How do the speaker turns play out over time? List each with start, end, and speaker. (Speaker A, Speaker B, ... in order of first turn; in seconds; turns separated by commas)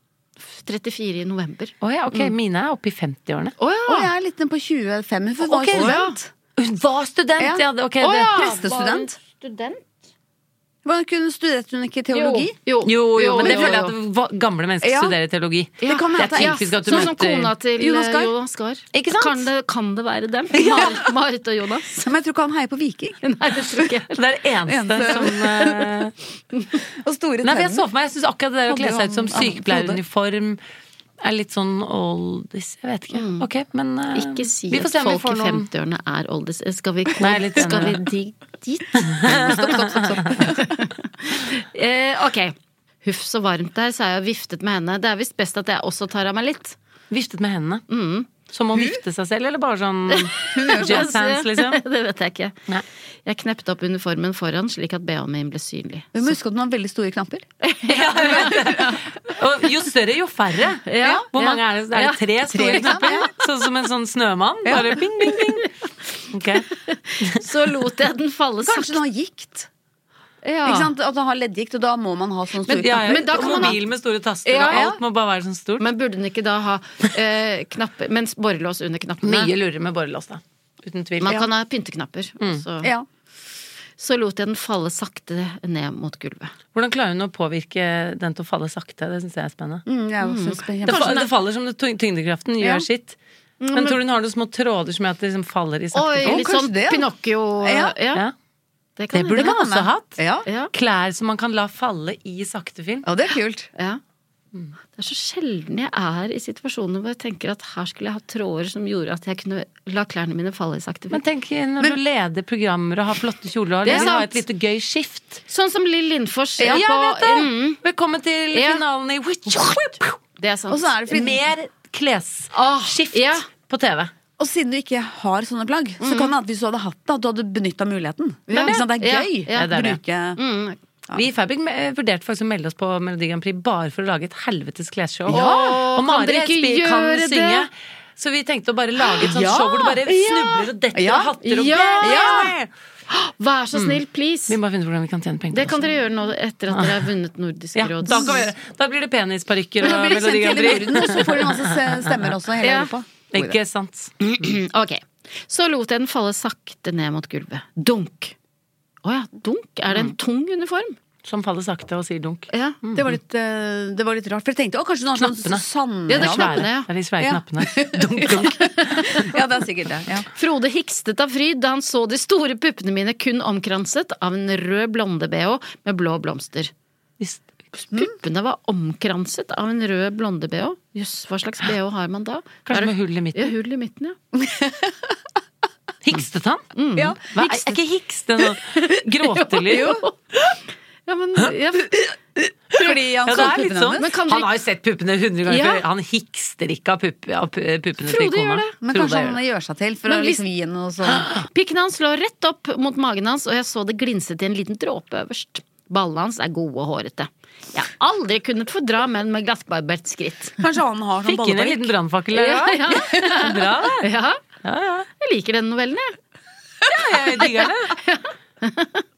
Speaker A: 0.4-2.3, Speaker B: 1.8-3.5, Speaker A: 3.6-4.1, Speaker C: 3.9-6.3, Speaker B: 5.4-6.0, Speaker A: 5.7-6.2, Speaker B: 6.6-8.3, Speaker C: 7.4-7.6, Speaker A: 8.0-9.8, Speaker C: 8.2-9.1, Speaker C: 10.8-12.5, Speaker A: 12.1-13.9, Speaker B: 12.8-17.5, Speaker C: 13.4-13.8, Speaker C: 14.8-15.1, Speaker A: 15.8-22.1, Speaker C: 15.8-17.1, Speaker C: 17.8-18.3, Speaker B: 18.9-19.5, Speaker C: 20.6-20.9, Speaker C: 22.0-23.2, Speaker A: 23.2-24.2, Speaker B: 24.1-26.1, Speaker C: 24.7-25.8, Speaker A: 25.0-25.9, Speaker C: 27.0-27.9, Speaker B: 27.4-30.6, Speaker C: 28.7-30.0, Speaker B: 31.2-35.7, Speaker A: 33.1-33.5, Speaker A: 34.1-39.2, Speaker B: 37.2-38.0, Speaker B: 39.0-40.0, Speaker C: 39.2-40.9, Speaker A: 40.4-46.8, Speaker B: 47.1-47.8, Speaker A: 47.9-48.3, Speaker B: 48.5-51.8, Speaker A: 50.1-52.6, Speaker C: 50.5-51.1, Speaker A: 53.2-56.3, Speaker C: 56.1-57.5, Speaker A: 57.6-59.0, Speaker B: 57.9-65.7, Speaker C: 58.3-58.9, Speaker A: 60.9-63.4, Speaker C: 61.0-61.3, Speaker C: 62.5-63.3, Speaker C: 64.7-65.0, Speaker A: 65.3-65.7, Speaker B: 66.3-66.7, Speaker A: 66.8-69.0, Speaker C: 68.7-69.7, Speaker A: 70.4-70.9, Speaker C: 70.6-73.8, Speaker B: 72.7-75.8, Speaker A: 72.9-73.8, Speaker A: 74.5-74.9, Speaker C: 74.7-75.0, Speaker A: 75.8-79.5, Speaker B: 79.2-81.4, Speaker A: 81.2-82.9, Speaker A: 84.0-86.5, Speaker B: 86.7-89.8, Speaker C: 89.9-91.3, Speaker A: 90.2-91.2, Speaker B: 90.8-93.2, Speaker C: 92.6-92.8, Speaker B: 93.7-96.4, Speaker A: 95.9-98.2, Speaker C: 96.2-97.1, Speaker C: 97.6-98.0, Speaker A: 99.0-99.5, Speaker B: 99.1-100.2, Speaker C: 99.3-100.5, Speaker A: 100.5-100.7, Speaker B: 100.7-103.0, Speaker C: 103.0-103.7, Speaker A: 105.0-111.2, Speaker B: 111.1-115.4, Speaker A: 113.8-114.4, Speaker C: 113.9-114.1, Speaker A: 115.5-117.8, Speaker C: 116.6-116.8, Speaker B: 116.7-120.2, Speaker A: 118.5-118.8, Speaker A: 120.4-120.9, Speaker C: 120.7-121.5, Speaker B: 121.1-124.1, Speaker A: 122.5-123.5, Speaker C: 124.4-130.4, Speaker A: 126.0-126.3, Speaker A: 128.5-129.7, Speaker B: 128.5-128.8, Speaker B: 129.5-130.0, Speaker A: 130.3-130.8, Speaker B: 131.1-142.7, Speaker A: 135.3-137.7, Speaker C: 135.3-135.6, Speaker C: 139.2-141.3, Speaker A: 141.4-142.5, Speaker C: 142.0-142.5, Speaker A: 143.1-144.6, Speaker B: 143.7-146.0, Speaker A: 145.5-148.5, Speaker B: 146.7-147.1, Speaker B: 147.7-152.3, Speaker C: 148.1-148.4, Speaker C: 149.8-153.6, Speaker A: 152.6-152.9, Speaker B: 153.3-154.5, Speaker A: 154.2-158.3, Speaker A: 159.0-161.0, Speaker B: 161.2-163.2, Speaker A: 162.5-162.8, Speaker C: 162.9-170.3, Speaker B: 165.2-169.1, Speaker A: 166.1-166.9, Speaker A: 170.3-176.7, Speaker B: 177.2-177.5, Speaker A: 177.8-184.2, Speaker B: 182.7-183.5, Speaker C: 184.3-185.1, Speaker B: 186.0-186.7, Speaker A: 186.7-187.8, Speaker C: 186.9-187.7, Speaker B: 187.3-190.0, Speaker A: 189.3-190.1, Speaker C: 189.7-190.0, Speaker A: 191.1-191.9, Speaker C: 191.9-194.1, Speaker B: 192.7-199.4, Speaker A: 194.0-194.5, Speaker A: 195.5-195.8, Speaker A: 198.1-198.7, Speaker C: 198.8-201.3, Speaker A: 200.1-200.4, Speaker B: 201.1-201.4, Speaker A: 201.5-210.6, Speaker C: 210.6-211.9, Speaker B: 211.2-214.1, Speaker A: 212.3-214.4, Speaker B: 214.6-215.1, Speaker A: 215.2-216.2, Speaker B: 216.8-217.9, Speaker A: 217.4-219.0